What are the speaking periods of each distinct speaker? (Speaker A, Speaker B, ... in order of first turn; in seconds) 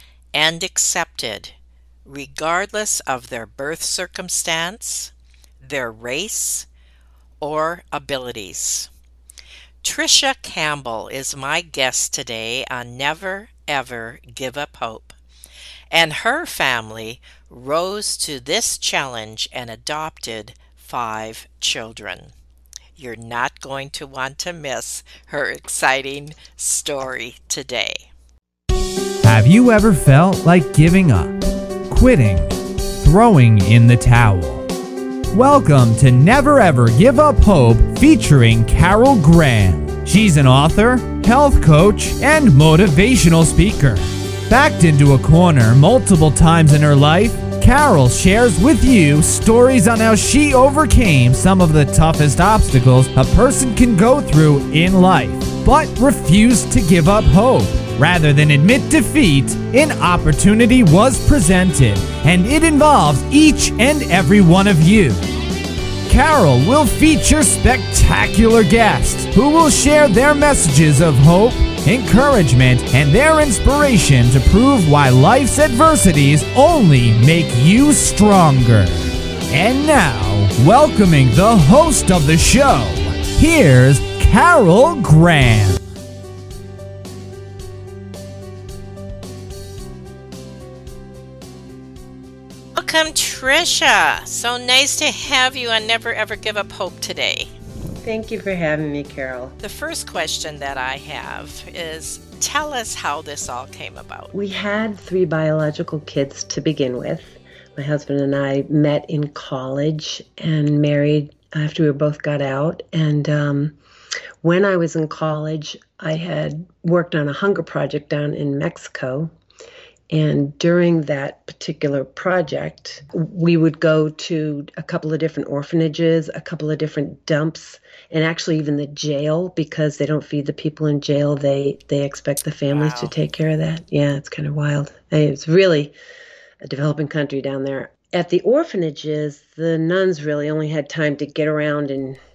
Speaker A: 0.3-1.5, 2.0-6.7, 7.4-8.9, 9.8-15.2, 15.9-22.3, 23.0-28.1, 92.7-97.5, 99.6-104.3, 132.7-133.1
Speaker B: 29.2-34.7, 35.3-65.2, 66.1-85.8
Speaker C: 98.0-99.5, 104.3-113.7, 114.4-119.3, 120.1-135.9, 136.6-142.2